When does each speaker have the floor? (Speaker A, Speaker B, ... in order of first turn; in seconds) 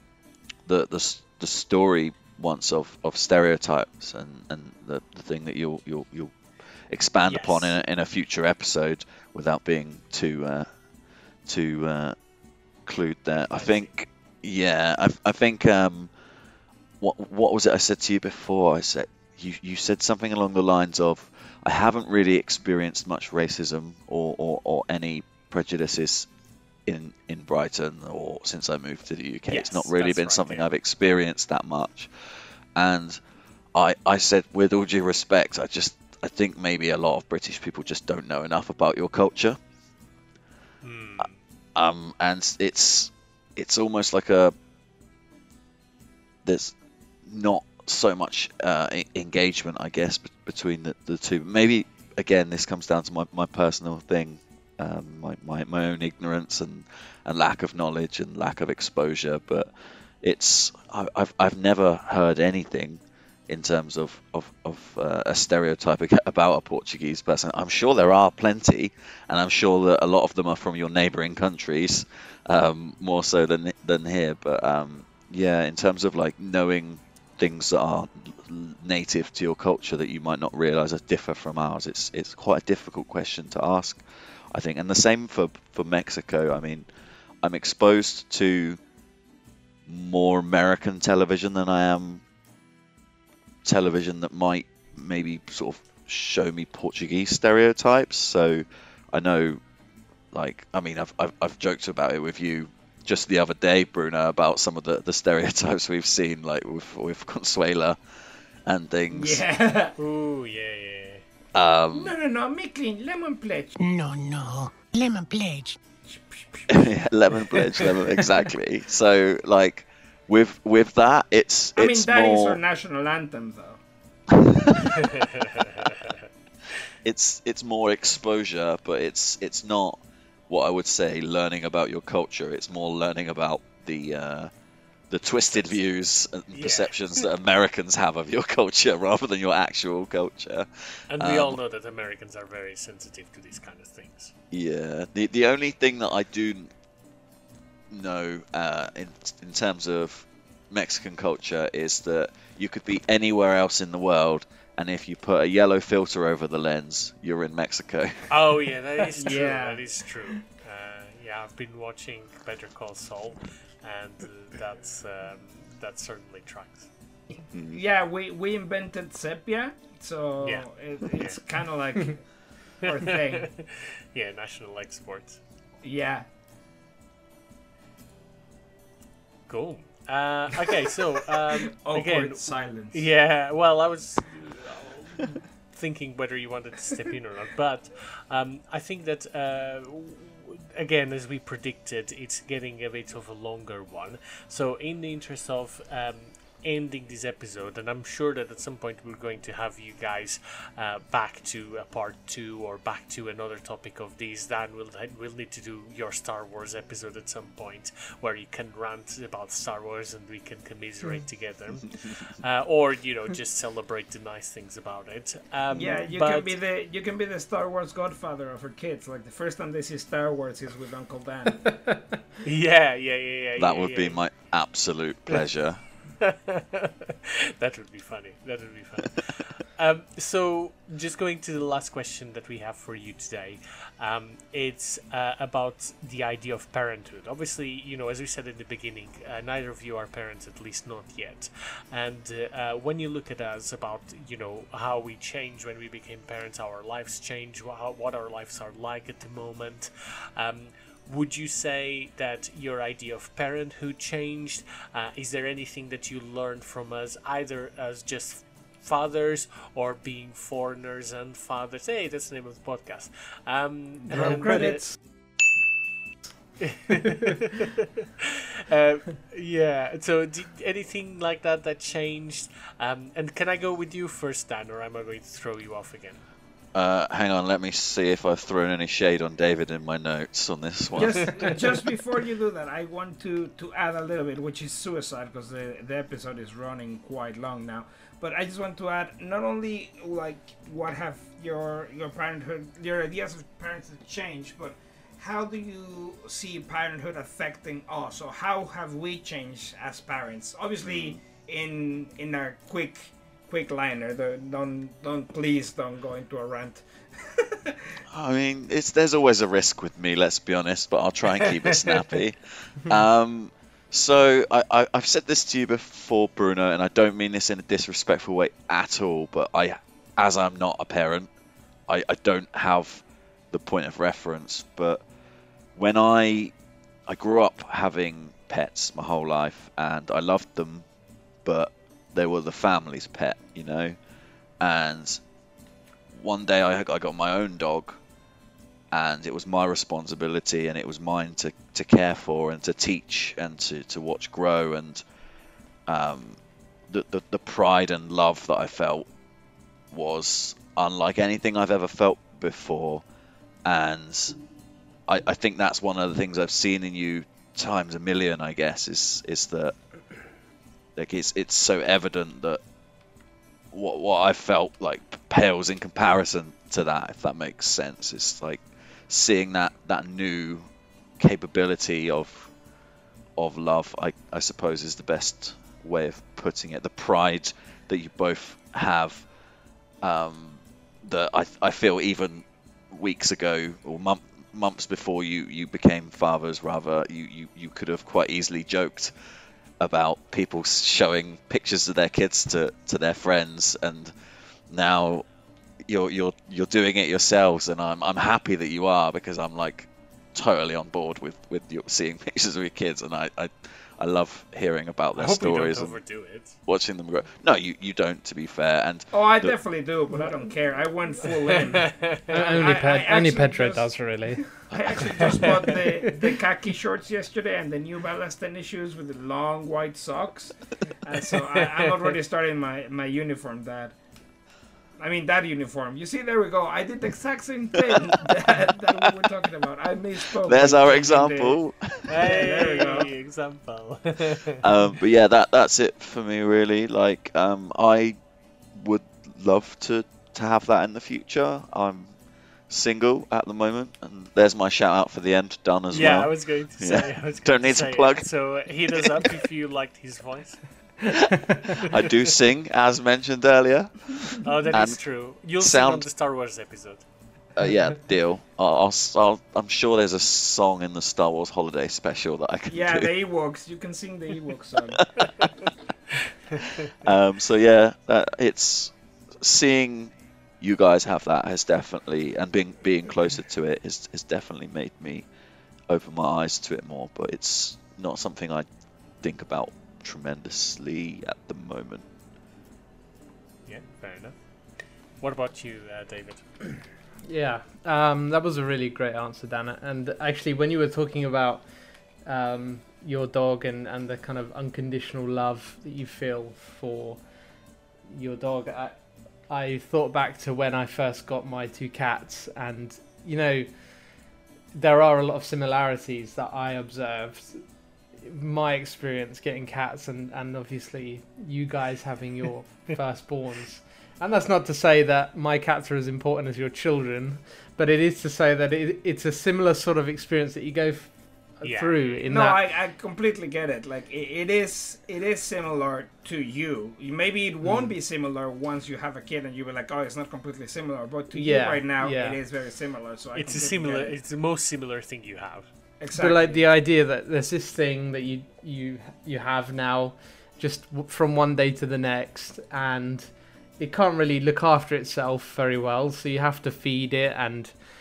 Speaker A: 0.7-6.3, 6.9-10.7, 11.5-12.1, 12.8-16.1, 17.0-26.3, 26.9-32.1, 32.8-33.2, 33.7-39.6, 41.7-44.5, 46.4-46.7, 47.2-59.7, 60.2-86.8, 87.4-88.8, 89.8-92.2, 93.6-99.6, 100.3-108.0, 108.7-109.4, 111.5-112.2, 116.7-122.6, 124.3-125.0, 127.0-134.5, 135.1-140.7, 141.2-141.6, 144.5-146.7, 147.9-158.3, 167.5-167.8, 223.6-225.8, 276.7-281.6, 300.8-301.2, 308.1-321.3, 321.9-325.0, 325.7-326.5, 327.1-330.8, 331.4-334.0, 334.6-335.2, 336.1-338.0, 338.9-345.0, 345.9-346.4, 346.9-349.1, 349.9-353.0, 353.6-354.4, 355.1-359.7, 360.9-362.6, 363.7-370.7, 371.2-372.5, 373.4-379.2, 380.0-389.1, 389.8-394.1, 394.7-395.2, 395.9-406.0, 406.6-409.5, 430.4-432.2, 434.6-438.2, 438.7-442.1, 442.7-448.3, 451.1-456.1, 457.6-463.1, 465.1-465.5, 467.0-475.3, 475.9-478.6, 479.2-482.0
Speaker B: 7.2-7.8, 13.5-13.9, 29.5-30.7, 40.8-41.4, 110.0-111.2, 125.0-126.2, 135.5-135.8, 136.5-137.3, 141.1-144.3, 158.3-166.9, 170.4-171.4, 172.9-175.4, 179.5-216.6, 222.4-224.2, 226.2-264.8, 266.6-276.2, 405.1-406.6, 411.5-412.6, 421.7-422.1, 432.1-434.6, 445.9-450.6, 454.4-457.1, 483.6-484.4, 485.2-486.5, 521.6-522.2, 533.3-535.7
Speaker C: 109.1-109.9, 111.9-113.8, 116.0-116.9, 117.5-118.3, 121.8-123.8, 159.1-159.8, 167.7-172.2, 172.8-173.5, 175.8-176.2, 181.8-183.0, 215.7-221.6, 280.9-308.0, 409.1-413.9, 414.5-423.9, 425.0-431.6, 432.1-433.1, 462.7-465.2, 522.2-534.1, 536.0-536.6
Speaker D: 113.8-115.8
Speaker E: 221.7-222.2, 264.1-264.8, 412.3-414.5, 415.2-416.3, 451.2-451.7, 487.2-491.7, 492.2-497.2, 498.1-503.7, 504.7-507.6, 508.2-522.6, 527.6-528.0, 531.3-532.4, 536.1-547.7